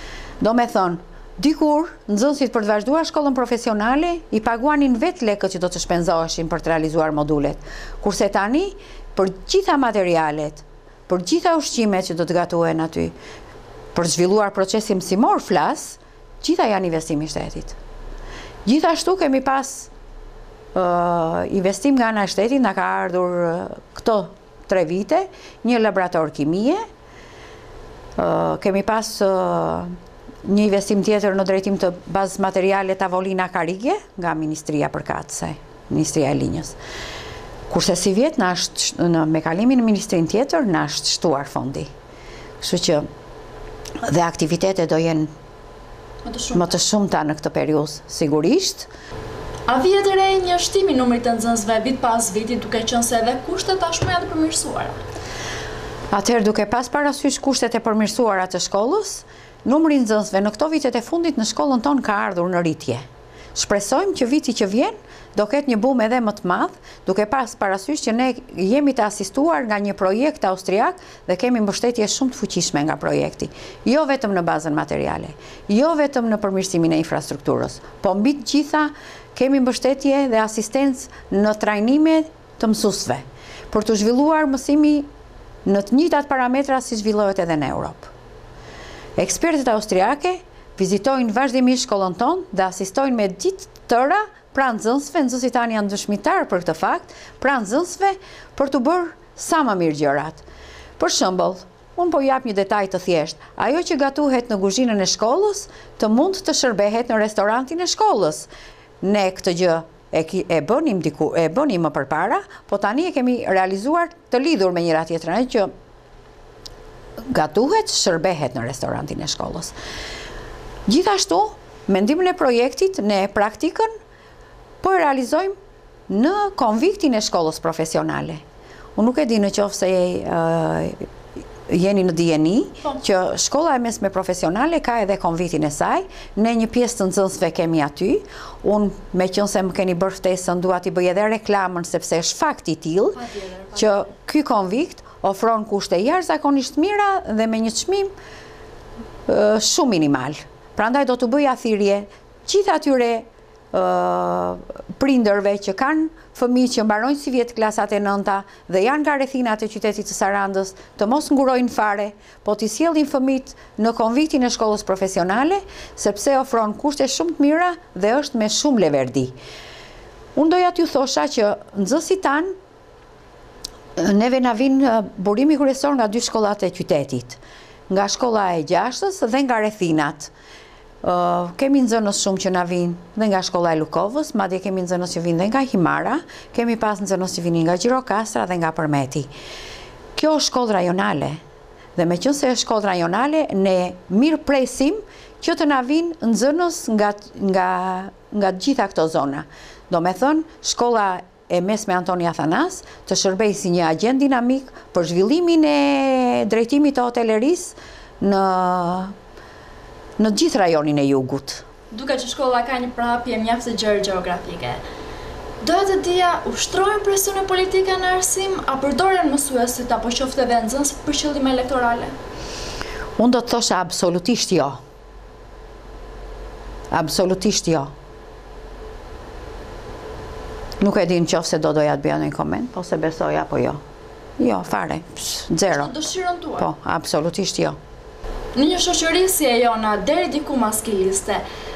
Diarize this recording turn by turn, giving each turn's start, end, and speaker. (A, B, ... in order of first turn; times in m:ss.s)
0:00.4-0:13.1 A
0:14.0-0:17.8 A
0:18.7-0:19.9 A
0:20.8-0:26.8 A
0:28.2-0:36.8 A
0:37.7-0:41.9 A
0:42.6-0:43.1 A
0:44.0-0:45.3 A
0:46.2-0:46.8 B
0:46.5-0:48.9 A
0:49.7-0:55.0 B
0:56.1-1:03.0 A
1:03.6-1:25.1 A
1:25.6-1:28.1 A
1:29.2-1:40.4 A
1:41.0-1:48.5 A
1:49.0-1:55.7 A
1:57.3-1:59.7 A
2:00.9-2:03.9 A
2:04.8-2:05.6 A
2:06.1-2:08.4 A
2:09.0-2:11.1 A
2:11.7-2:23.2 A
2:23.2-2:23.9 B
2:23.8-2:28.1 A
2:29.3-2:49.4 A
2:50.4-2:52.5 A
2:54.0-3:00.3 A
3:01.0-3:09.3 A
3:10.1-3:11.4 A
3:12.0-3:29.1 A
3:30.2-3:31.6 A
3:31.9-3:34.8 B
3:35.6-3:42.1 B
3:43.2-3:44.8 A
3:46.9-3:47.9 A
3:50.8-3:53.8 A
3:54.4-3:55.9 A
3:55.7-3:56.7 B
3:56.6-3:57.8 A
3:58.6-4:01.4 B